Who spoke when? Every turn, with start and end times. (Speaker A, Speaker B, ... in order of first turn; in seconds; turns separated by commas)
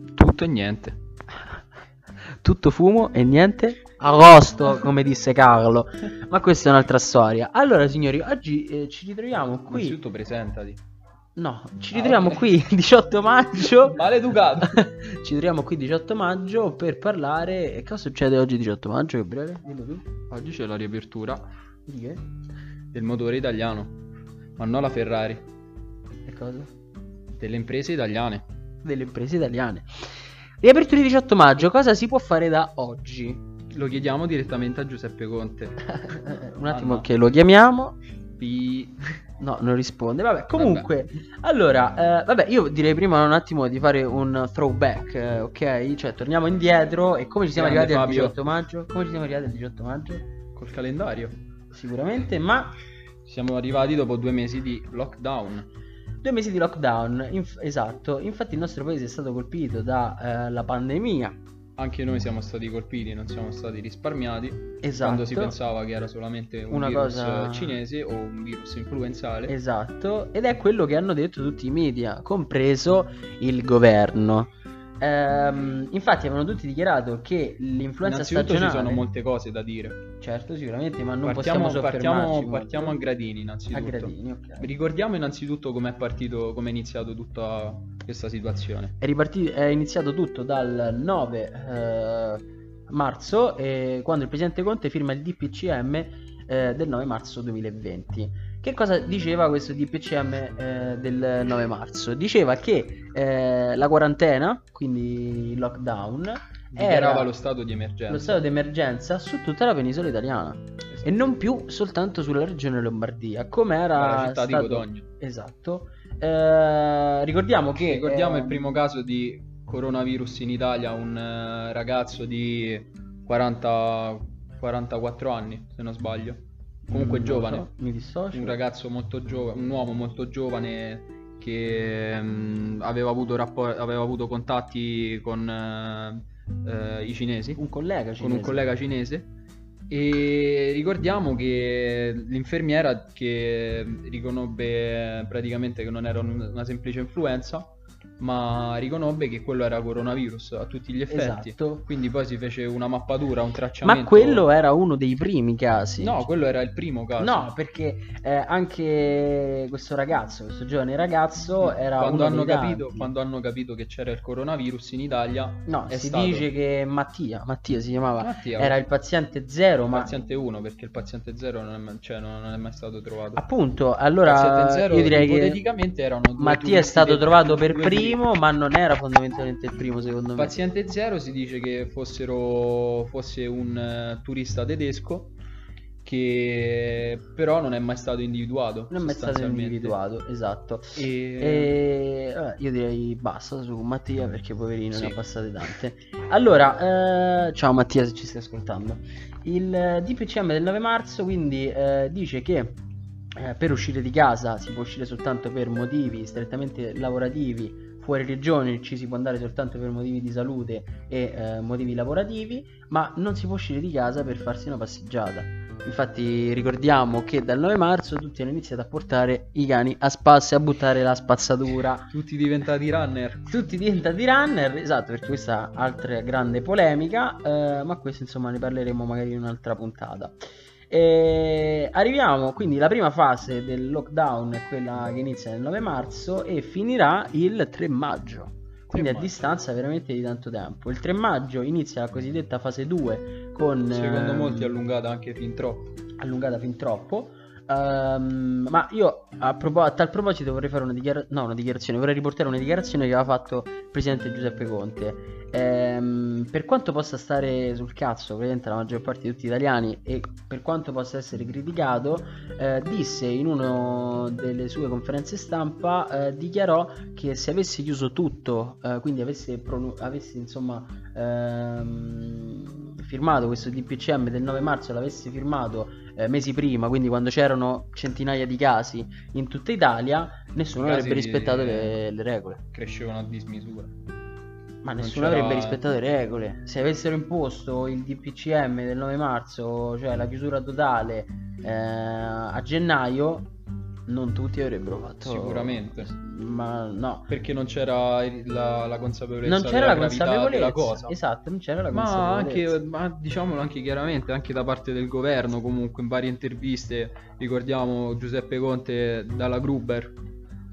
Speaker A: 0.1-0.9, Speaker B: 2.3-10.0, Speaker A: 9.7-10.8, Speaker B: 11.4-14.0, Speaker A: 11.9-12.5, Speaker A: 13.6-14.9, Speaker B: 14.6-20.1, Speaker A: 20.3-21.4, Speaker B: 21.9-22.2, Speaker A: 22.9-24.0, Speaker A: 24.6-25.5, Speaker B: 26.2-26.7, Speaker A: 27.3-28.4, Speaker B: 28.8-33.4, Speaker A: 33.7-35.8, Speaker B: 35.9-38.0, Speaker A: 36.7-37.1, Speaker A: 38.4-39.0, Speaker B: 39.4-50.2, Speaker A: 40.5-40.9, Speaker A: 47.5-48.4, Speaker A: 50.5-51.3, Speaker B: 51.7-52.7, Speaker A: 53.2-55.7, Speaker B: 56.2-61.4, Speaker A: 61.8-69.5, Speaker B: 64.8-65.5, Speaker B: 66.7-67.8, Speaker B: 69.5-79.0, Speaker A: 78.0-80.0, Speaker B: 80.2-83.0, Speaker A: 81.2-88.9, Speaker B: 83.7-84.7, Speaker B: 89.0-107.3, Speaker A: 106.7-108.4, Speaker B: 108.1-118.6, Speaker A: 113.9-115.0, Speaker A: 117.8-127.7, Speaker B: 126.9-128.6, Speaker A: 128.3-137.6, Speaker B: 137.6-138.6, Speaker A: 138.2-139.3, Speaker A: 139.9-154.5, Speaker B: 151.1-151.8, Speaker B: 153.8-156.2, Speaker A: 156.0-157.5, Speaker B: 157.2-163.1, Speaker A: 161.6-166.5, Speaker B: 165.7-170.1, Speaker A: 168.2-168.8, Speaker A: 169.9-173.4, Speaker B: 173.3-175.6, Speaker A: 174.2-178.2, Speaker B: 176.4-180.6, Speaker A: 180.4-185.3, Speaker A: 186.0-189.9, Speaker B: 188.9-202.8, Speaker A: 190.9-191.8, Speaker B: 203.3-222.1, Speaker A: 222.1-223.4, Speaker B: 223.5-230.3, Speaker B: 230.9-244.7, Speaker A: 238.9-239.5, Speaker A: 243.9-245.9, Speaker B: 246.2-282.6, Speaker A: 280.8-282.0, Speaker A: 282.7-283.9, Speaker B: 284.8-293.5, Speaker A: 285.0-285.8, Speaker B: 294.1-297.3, Speaker A: 295.2-296.1, Speaker A: 297.3-301.1, Speaker B: 299.4-302.8, Speaker A: 301.9-310.2